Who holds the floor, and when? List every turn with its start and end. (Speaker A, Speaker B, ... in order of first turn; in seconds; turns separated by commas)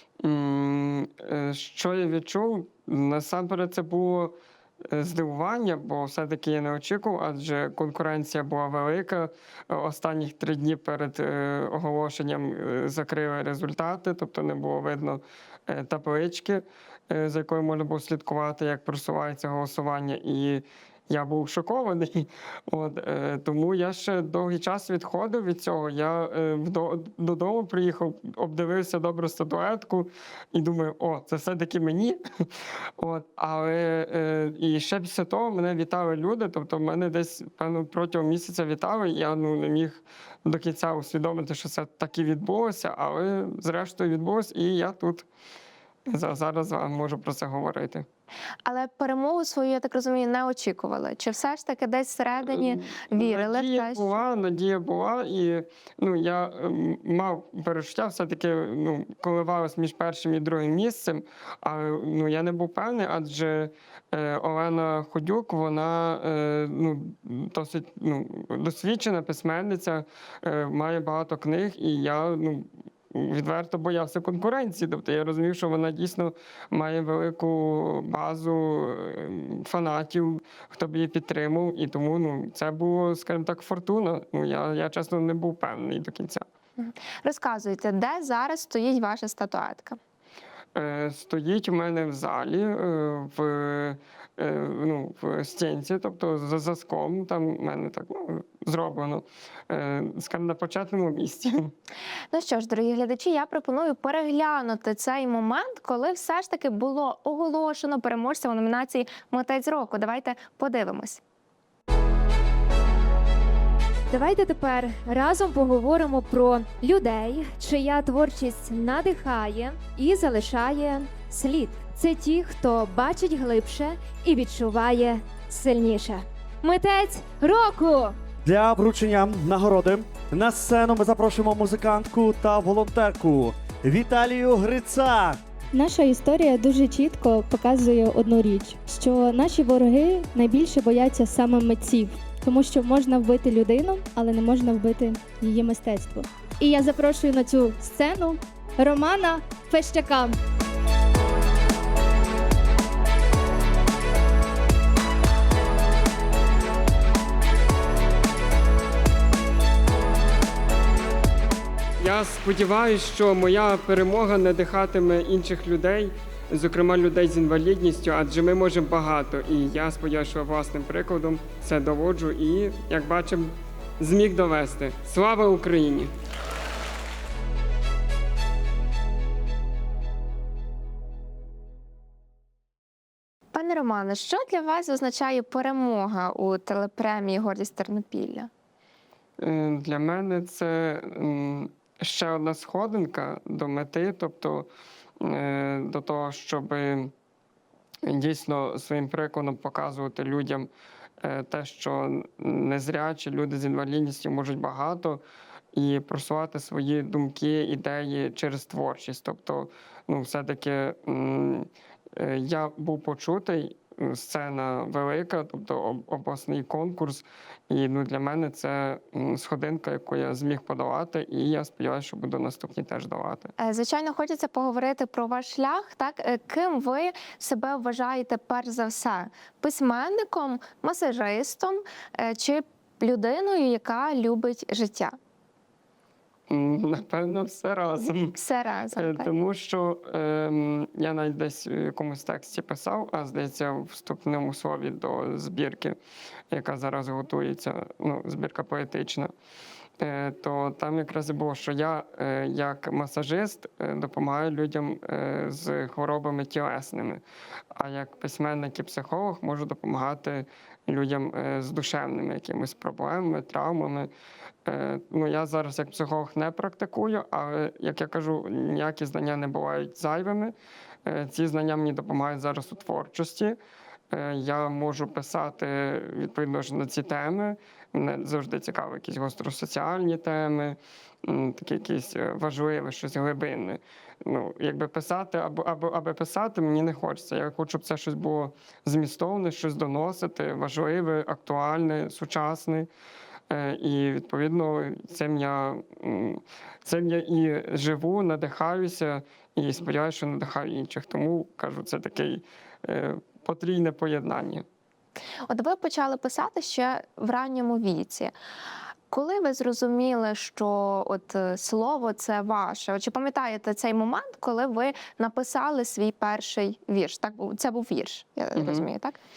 Speaker A: 0.2-4.3, Speaker A: 4.9-32.5, Speaker A: 33.0-45.3, Speaker A: 46.1-48.0, Speaker B: 48.6-54.1, Speaker A: 52.4-86.4, Speaker B: 86.8-90.0, Speaker A: 90.7-101.7, Speaker B: 102.3-111.2, Speaker C: 114.1-128.1, Speaker D: 128.4-135.4, Speaker E: 135.7-150.4, Speaker A: 162.0-176.1, Speaker B: 183.5-188.5, Speaker A: 189.4-194.7, Speaker A: 195.2-197.1, Speaker A: 198.0-200.7, Speaker A: 201.2-205.2, Speaker A: 205.7-223.5, Speaker B: 223.6-235.1, Speaker A: 236.5-238.4, Speaker B: 238.3-239.3, Speaker A: 238.9-246.0, Speaker A: 246.5-249.3, Speaker A: 250.0-257.2, Speaker A: 257.7-264.1, Speaker A: 264.6-270.5, Speaker A: 271.1-273.6, Speaker A: 274.1-292.9, Speaker A: 293.5-304.6, Speaker B: 305.5-308.3, Speaker B: 309.1-319.2, Speaker A: 318.5-318.9